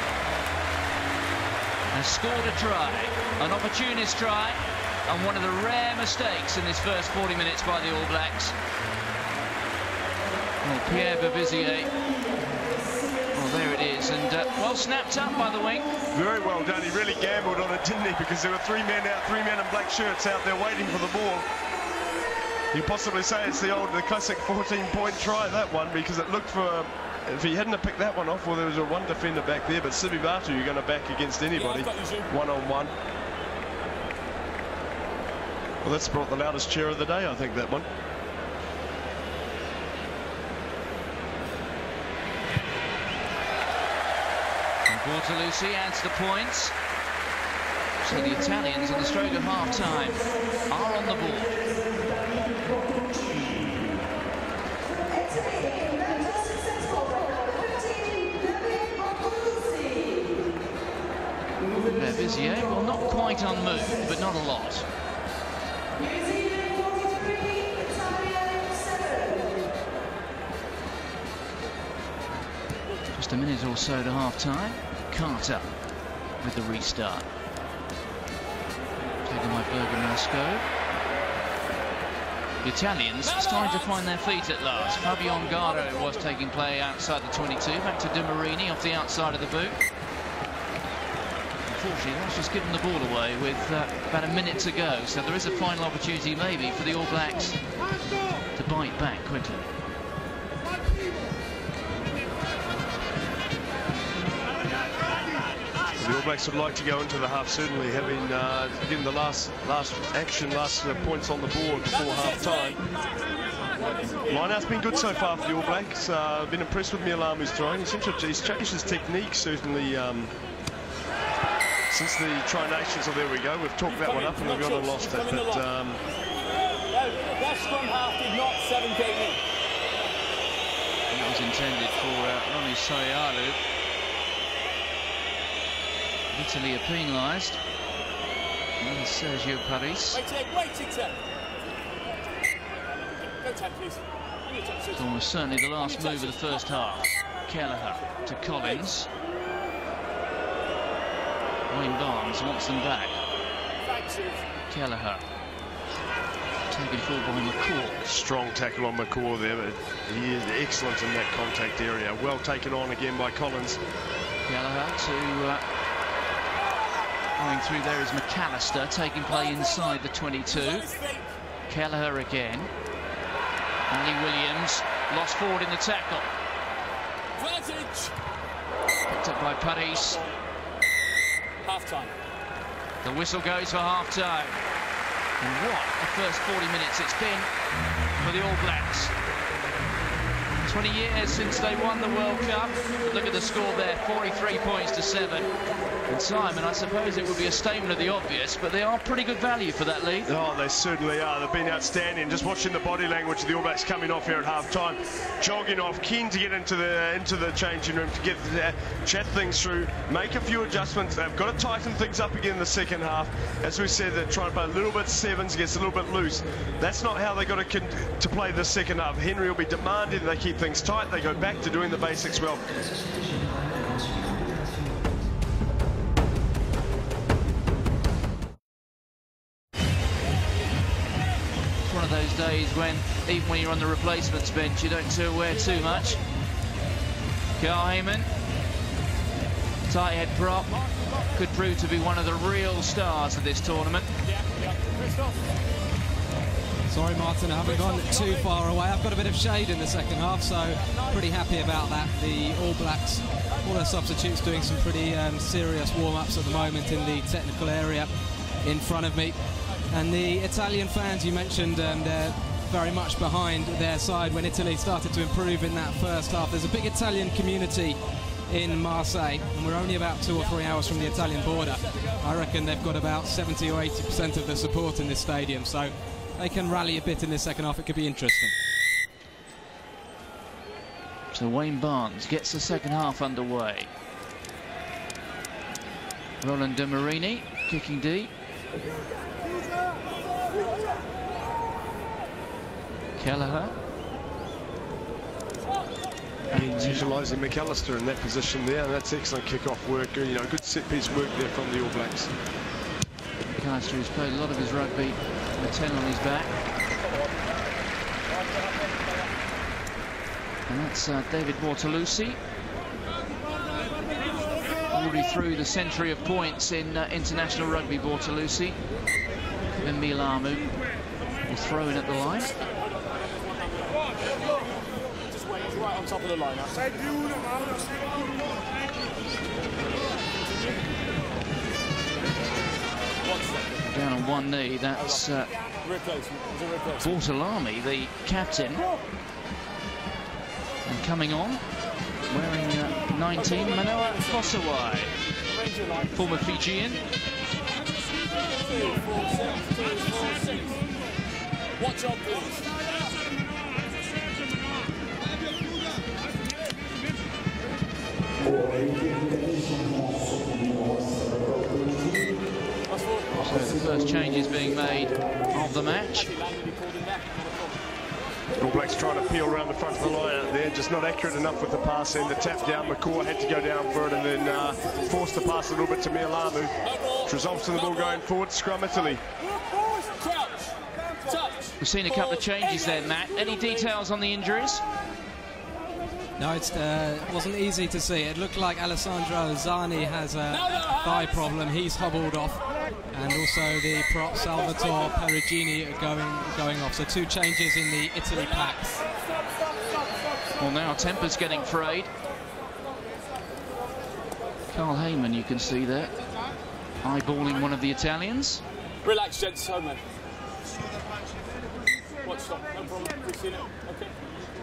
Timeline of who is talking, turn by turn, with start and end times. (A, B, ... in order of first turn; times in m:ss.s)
0:01.9-0:08.6 A
0:10.6-0:11.9 A
0:13.3-0:15.9 A
0:16.1-0:21.4 B
0:22.7-0:32.9 B
0:35.8-0:37.9 B
0:44.9-0:46.7 A
0:48.0-0:51.6 A
1:01.9-1:04.9 A
1:13.1-1:15.7 A
1:16.4-1:17.3 A
1:19.2-1:20.6 A
1:22.6-1:29.8 A
1:31.7-1:37.6 A
1:38.6-1:39.7 A
1:46.0-1:52.8 B
1:54.2-2:00.3 B
2:01.9-2:06.0 B
2:04.3-2:05.2 C
2:06.9-2:09.4 C
2:11.1-2:13.6 A
2:16.3-2:17.6 A
2:18.8-2:20.2 A
2:20.3-2:21.2 C
2:23.1-2:24.8 C
2:24.9-2:29.1 A
2:31.7-2:33.2 A
2:33.9-2:34.4 C
2:34.7-2:35.2 A
2:36.7-2:38.0 A
2:38.0-2:43.8 B
2:44.5-2:45.6 A
2:47.4-2:50.9 A
2:50.9-2:51.2 C
2:51.7-2:52.7 A
2:53.9-2:56.3 A
2:57.4-2:58.2 C
2:59.1-3:00.2 A
3:01.6-3:02.1 C
3:03.0-3:04.6 A
3:05.4-3:07.5 A
3:08.2-3:09.1 A
3:10.6-3:15.5 A
3:16.1-3:20.3 A
3:20.3-3:42.7 B
3:51.8-3:56.2 A
3:57.6-3:58.3 A
3:59.9-4:00.7 A
4:01.3-4:04.1 A
4:04.5-4:05.3 C
4:06.9-4:18.1 D
4:18.6-4:19.4 D
4:19.9-4:38.5 D
4:41.3-4:43.9 A
4:46.4-4:48.3 A
4:53.2-4:53.8 A
4:56.5-4:57.1 A
4:56.5-5:02.3 B
5:03.6-5:06.5 A
5:10.7-5:12.4 A
5:14.9-5:18.8 A
5:19.8-5:20.7 A
5:21.5-5:22.6 A
5:25.4-5:26.8 C
5:33.8-5:35.5 A
5:35.9-5:36.8 C
5:37.0-5:38.8 A
5:40.9-5:41.6 A
5:42.3-5:45.1 A
5:46.1-5:47.0 A
5:48.6-5:50.8 C
5:51.9-5:52.8 C
6:03.3-6:06.3 A
6:06.7-6:07.4 C
6:08.6-6:19.2 B
6:20.1-6:20.7 C
6:21.2-6:21.7 C
6:21.8-6:24.8 A
6:26.4-6:39.0 D
6:40.6-6:42.1 A
6:44.7-6:46.2 A
6:47.0-6:48.6 A
6:49.0-6:50.0 C
6:52.2-6:54.0 C